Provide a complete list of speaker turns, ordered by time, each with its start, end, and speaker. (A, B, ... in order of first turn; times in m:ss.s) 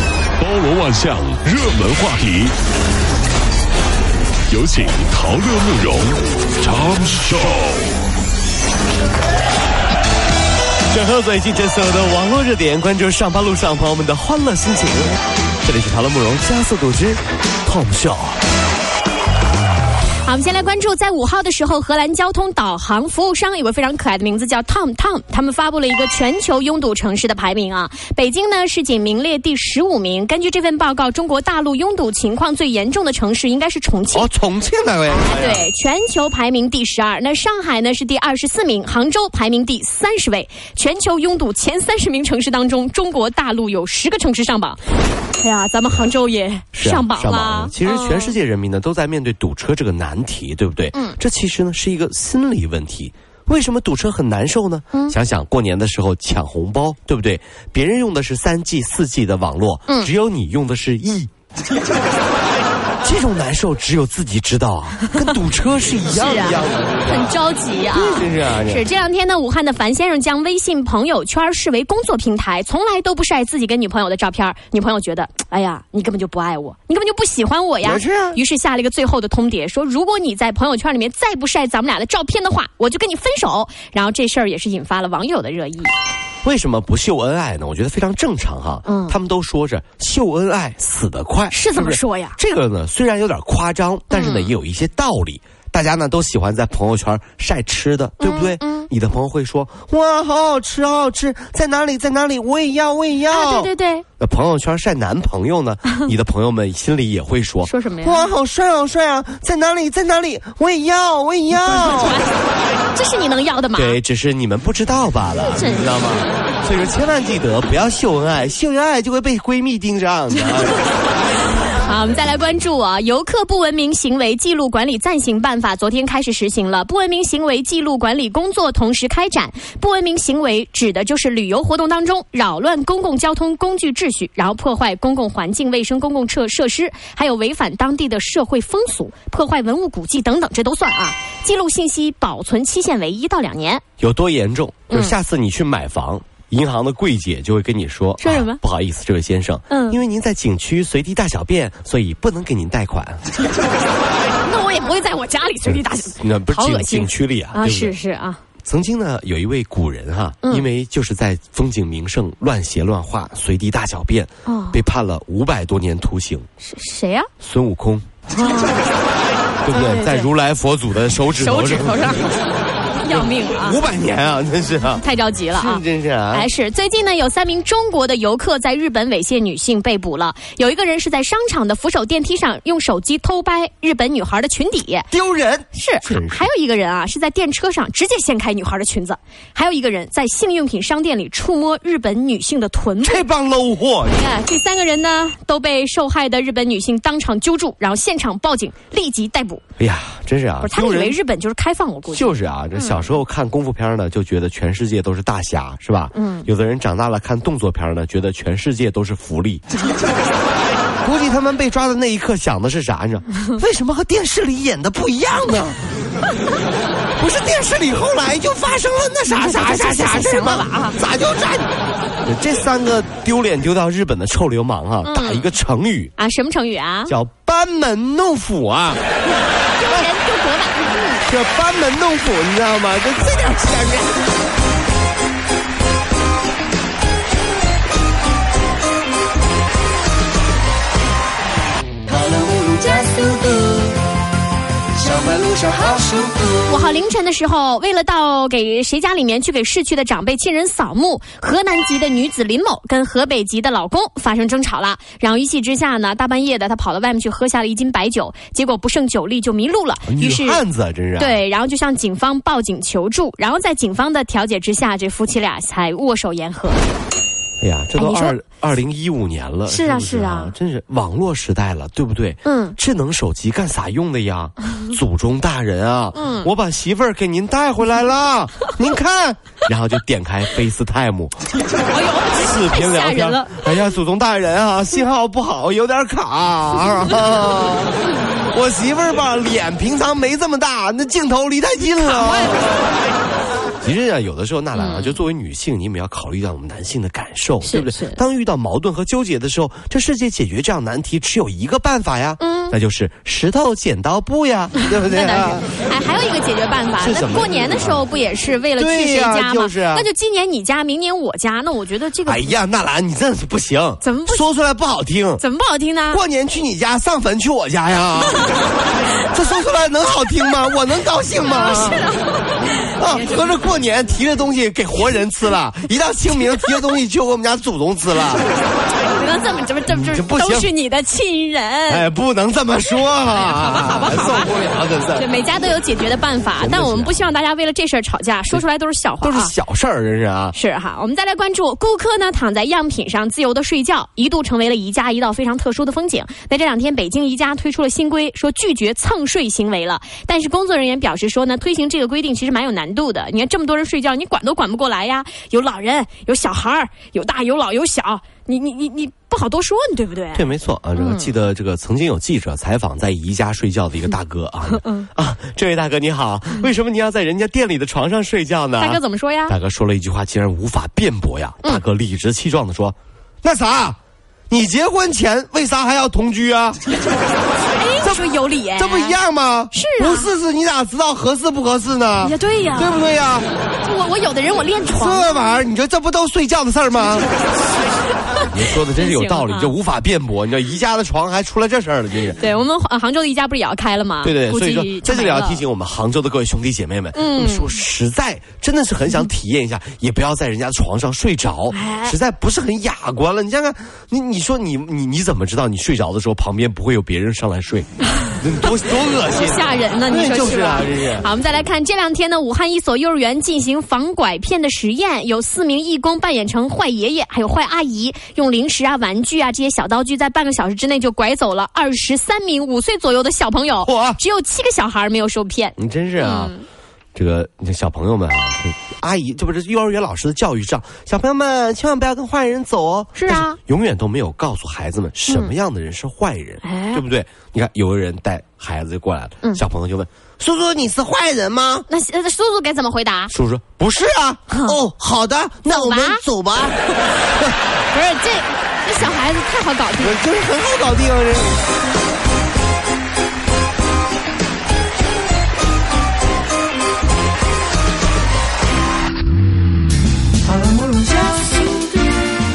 0:00.4-0:02.5 A
0:00.5-0:02.5 B
0:04.5-0:07.5 B
0:04.5-0:07.8 A
0:10.9-0:18.4 B
0:20.2-0:34.3 C
0:34.1-0:35.6 B
0:35.2-0:44.8 C
0:45.4-0:48.4 C
0:46.7-1:01.3 B
0:50.9-0:51.2 C
1:03.0-1:07.4 B
1:06.1-1:25.9 C
1:07.9-1:08.8 B
1:17.8-1:18.4 B
1:26.4-1:52.2 B
1:28.8-1:29.2 C
1:31.5-1:32.4 C
1:34.1-1:34.5 C
1:38.2-1:38.9 C
1:43.3-1:44.0 C
1:47.6-1:48.3 C
1:51.5-1:52.4 C
1:52.9-1:54.0 C
1:53.7-2:00.8 B
1:55.4-1:56.2 C
2:01.7-2:23.8 C
2:24.0-2:33.2 B
2:24.9-2:25.2 C
2:28.2-2:28.6 C
2:29.7-2:30.0 C
2:34.4-2:38.4 C
2:35.6-2:37.9 B
2:38.6-2:46.5 B
2:40.4-2:40.7 C
2:44.4-2:44.8 C
2:46.6-2:47.3 C
2:47.4-2:48.0 B
2:48.4-2:48.8 C
2:49.6-2:52.2 B
2:49.7-2:50.3 C
2:51.3-2:52.4 C
2:53.0-2:53.8 C
2:53.1-2:56.5 B
2:54.9-3:05.1 C
3:05.1-3:06.5 B
3:05.7-3:13.2 C
3:13.0-3:14.3 B
3:14.0-3:19.6 C
3:19.8-3:21.2 B
3:20.6-3:23.1 C
3:22.1-3:29.6 B
3:26.1-3:26.5 C
3:31.0-3:35.8 B
3:37.2-3:41.7 B
3:39.2-3:41.0 C
3:42.2-3:46.1 B
3:45.0-3:45.5 C
3:46.2-3:47.1 C
3:47.1-3:49.0 B
3:49.7-3:51.2 C
3:49.8-3:50.1 B
3:51.2-3:54.2 B
4:02.1-4:04.0 D
4:05.0-4:06.6 D
4:06.6-4:20.6 C
4:20.1-4:21.4 B
4:21.2-4:26.9 C
4:27.6-4:41.4 B
4:28.0-4:28.4 C
4:29.7-4:30.5 C
4:32.4-4:32.8 C
4:36.1-4:36.5 C
4:41.9-4:43.7 C
4:42.3-4:52.7 B
4:52.0-4:52.9 C
4:53.8-5:05.7 B
4:54.7-4:55.2 C
4:57.6-4:58.2 C
5:02.4-5:02.8 C
5:04.8-5:12.5 C
5:07.0-5:08.0 B
5:08.8-5:10.1 B
5:12.2-5:15.4 B
5:14.0-5:14.4 C
5:15.4-5:16.2 C
5:16.1-5:18.5 B
5:19.3-5:22.1 B
5:21.4-5:23.4 C
5:22.8-5:28.5 B
5:29.0-5:32.0 C
5:29.9-5:30.7 B
5:31.9-5:35.3 B
5:33.2-5:34.5 C
5:35.1-5:39.5 C
5:36.6-5:37.2 B
5:39.2-5:40.6 B
5:40.5-6:01.3 C
6:00.3-6:14.0 B
6:08.8-6:09.6 C
6:14.5-6:16.8 B
6:17.7-6:19.2 C
6:18.0-6:23.5 B
6:19.7-6:20.3 C
6:22.2-6:23.0 C
6:23.8-6:25.4 C
6:24.9-6:27.3 B
6:28.3-6:29.7 C
6:28.5-6:32.4 B
6:32.3-6:35.6 C
6:34.2-6:51.3 B
6:37.1-6:37.8 C
6:41.7-6:42.2 C
6:48.2-7:06.6 C
7:03.8-7:04.2 B
7:05.8-7:06.5 B
7:07.1-7:21.9 B
7:13.1-7:13.6 C
7:15.3-7:15.5 C
7:16.6-7:17.0 C
7:21.9-7:23.3 C
7:23.3-7:26.8 B
7:24.5-7:24.8 C
7:25.7-7:26.2 C
7:27.9-7:30.2 C
7:30.0-7:31.6 B
7:40.5-7:42.1 D